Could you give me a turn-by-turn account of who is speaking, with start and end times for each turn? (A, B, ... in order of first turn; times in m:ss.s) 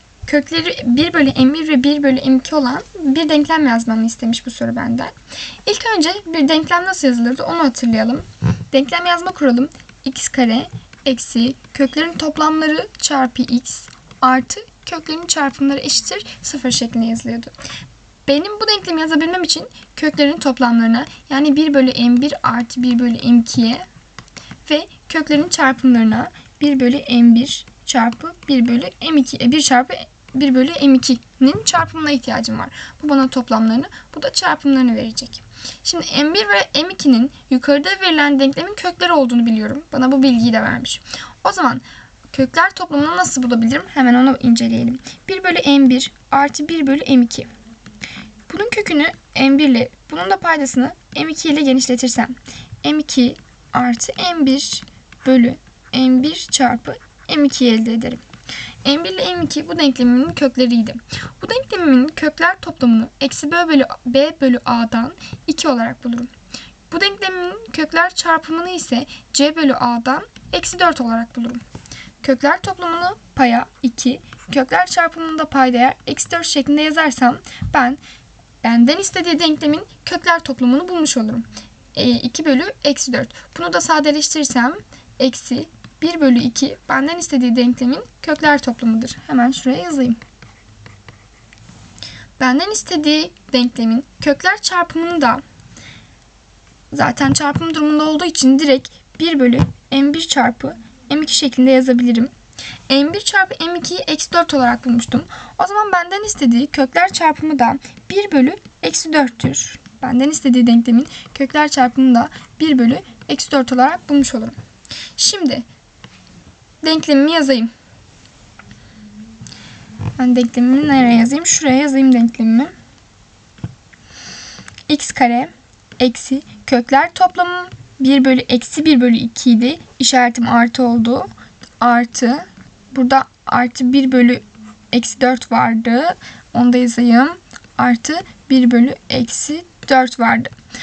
0:00.3-0:05.1 A
0:05.7-0:17.5 A
0:18.3-0:23.8 A
0:24.7-0:47.5 A
0:48.5-0:58.2 A
0:58.8-1:06.3 A
1:06.9-1:11.6 A
1:12.2-1:18.0 A
1:18.6-1:30.2 A
1:32.4-1:35.4 A
1:36.9-1:42.3 A
1:42.9-1:54.6 A
1:55.2-1:55.6 A
1:56.8-1:57.7 A
2:00.2-2:02.7 A
2:04.9-2:11.3 A
2:11.8-2:20.5 A